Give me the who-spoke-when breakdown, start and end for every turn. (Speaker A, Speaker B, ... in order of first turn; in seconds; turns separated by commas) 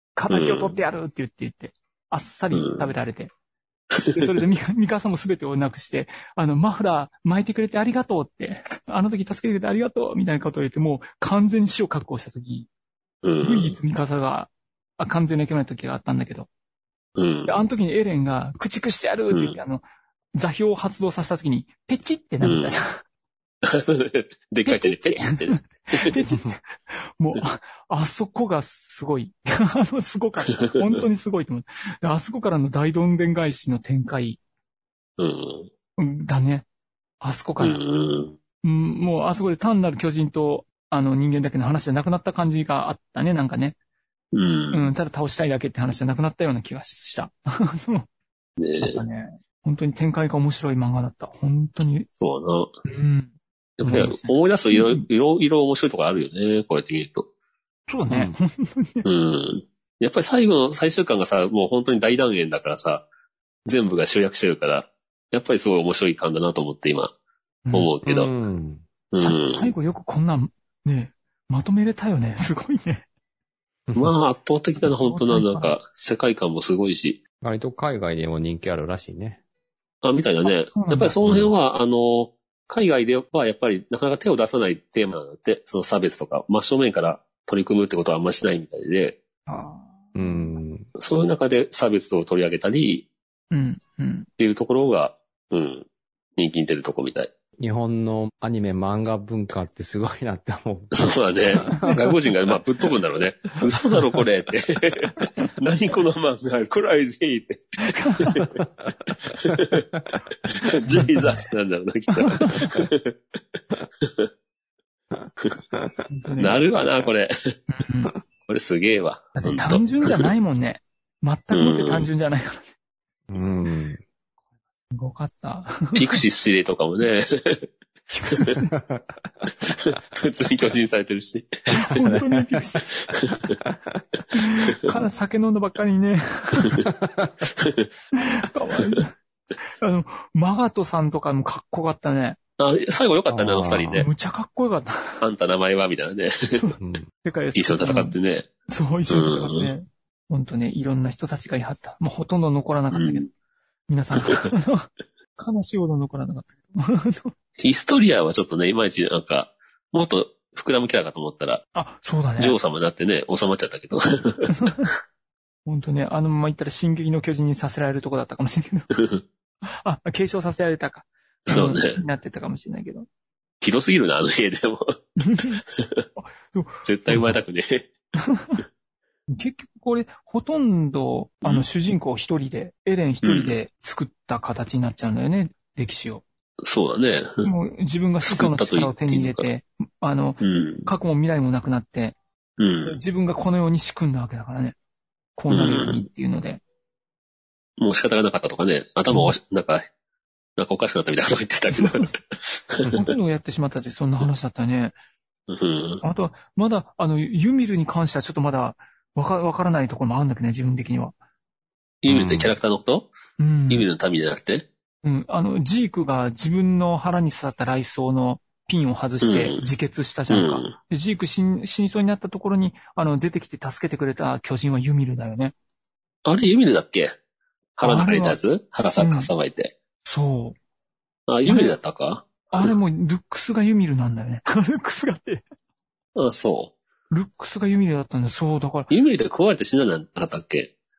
Speaker A: 0.2-3.3, Speaker B: 0.3-0.8, Speaker B: 2.5-2.9, Speaker B: 3.9-4.3, Speaker A: 4.1-12.7, Speaker B: 13.2-13.8, Speaker A: 13.4-16.5, Speaker B: 17.2-17.6, Speaker A: 17.5-19.8, Speaker B: 19.3-19.6, Speaker A: 20.4-23.0, Speaker B: 22.4-22.8, Speaker B: 23.6-26.1, Speaker A: 24.6-34.4, Speaker B: 35.2-35.7, Speaker A: 36.0-36.7, Speaker A: 37.2-37.8, Speaker B: 37.6-38.4, Speaker A: 38.6-43.8, Speaker B: 44.3-44.9, Speaker A: 44.7-48.1, Speaker B: 48.6-49.0, Speaker A: 48.7-52.1, Speaker B: 52.2-52.7, Speaker A: 52.9-53.3, Speaker B: 53.8-57.3, Speaker A: 53.9-55.0, Speaker A: 57.9-59.0, Speaker C: 58.1-58.4, Speaker B: 59.0-63.0, Speaker B: 63.7-67.1, Speaker A: 67.7-67.9, Speaker B: 67.7-68.3, Speaker C: 68.0-68.8, Speaker B: 69.1-69.7, Speaker A: 69.2-73.0, Speaker B: 74.0-77.2, Speaker A: 74.8-75.7, Speaker C: 77.4-79.4, Speaker B: 80.0-89.2, Speaker A: 80.4-81.2, Speaker C: 81.2-81.5, Speaker A: 89.5-90.5, Speaker C: 90.1-90.9, Speaker B: 91.0-93.1, Speaker A: 93.5-94.3, Speaker B: 94.4-95.9, Speaker B: 96.4-97.3, Speaker C: 97.6-102.1, Speaker B: 100.9-108.5, Speaker A: 101.7-102.0, Speaker A: 107.8-108.4, Speaker B: 109.2-109.9, Speaker C: 109.7-110.2, Speaker B: 110.5-113.1, Speaker A: 110.9-111.5, Speaker A: 112.1-112.9, Speaker B: 114.0-114.3, Speaker C: 115.1-115.9, Speaker A: 116.1-116.6, Speaker B: 116.4-117.6, Speaker A: 117.7-118.1, Speaker B: 118.5-120.3, Speaker A: 119.4-122.7, Speaker B: 121.5-122.1, Speaker C: 123.3-124.0, Speaker A: 124.9-126.2, Speaker B: 126.0-127.7, Speaker A: 128.1-128.7, Speaker C: 128.6-129.5, Speaker B: 129.7-131.6, Speaker C: 131.7-132.8, Speaker A: 131.7-133.0, Speaker B: 133.1-133.6, Speaker C: 133.3-134.0, Speaker A: 134.3-136.9, Speaker C: 136.8-137.5, Speaker B: 137.6-137.9, Speaker A: 138.1-139.1, Speaker A: 139.8-142.4, Speaker B: 142.6-144.1, Speaker C: 143.3-144.1, Speaker A: 143.9-145.2, Speaker B: 145.2-146.7, Speaker A: 146.5-148.1, Speaker C: 146.8-147.1, Speaker B: 147.6-148.5, Speaker A: 148.7-153.3, Speaker B: 149.1-149.7, Speaker B: 152.9-153.3, Speaker A: 153.9-157.3, Speaker B: 154.2-154.5, Speaker B: 157.6-161.6, Speaker A: 161.7-162.6, Speaker B: 162.4-164.6, Speaker A: 164.6-164.9, Speaker A: 165.7-168.9, Speaker B: 168.9-169.2, Speaker A: 169.8-173.1, Speaker B: 171.5-172.0, Speaker B: 173.6-174.9, Speaker A: 175.2-175.6, Speaker B: 175.7-176.1, Speaker A: 176.2-177.4, Speaker B: 176.8-177.9, Speaker A: 178.2-178.6, Speaker A: 179.3-186.2, Speaker B: 183.2-183.6, Speaker B: 186.6-187.5, Speaker A: 187.4-192.2, Speaker B: 188.2-189.5, Speaker B: 190.4-190.9, Speaker B: 192.6-193.0, Speaker A: 192.9-194.8, Speaker A: 195.4-196.6, Speaker B: 195.5-196.1, Speaker B: 197.8-199.9, Speaker A: 199.1-199.3, Speaker B: 200.6-203.0, Speaker A: 201.8-202.1, Speaker A: 202.9-204.9, Speaker B: 205.5-206.0, Speaker A: 206.0-211.1, Speaker B: 212.0-213.1, Speaker C: 212.1-212.5, Speaker A: 213.4-213.9, Speaker B: 213.7-214.7, Speaker A: 215.0-225.5, Speaker B: 219.2-219.7, Speaker B: 220.3-220.7, Speaker B: 226.2-227.1, Speaker B: 227.8-229.7, Speaker A: 227.8-228.4, Speaker A: 229.0-229.3, Speaker A: 230.1-230.6, Speaker B: 231.3-232.7, Speaker A: 231.5-231.8, Speaker A: 232.5-235.4, Speaker B: 236.1-236.7, Speaker A: 237.1-238.9, Speaker B: 238.9-240.7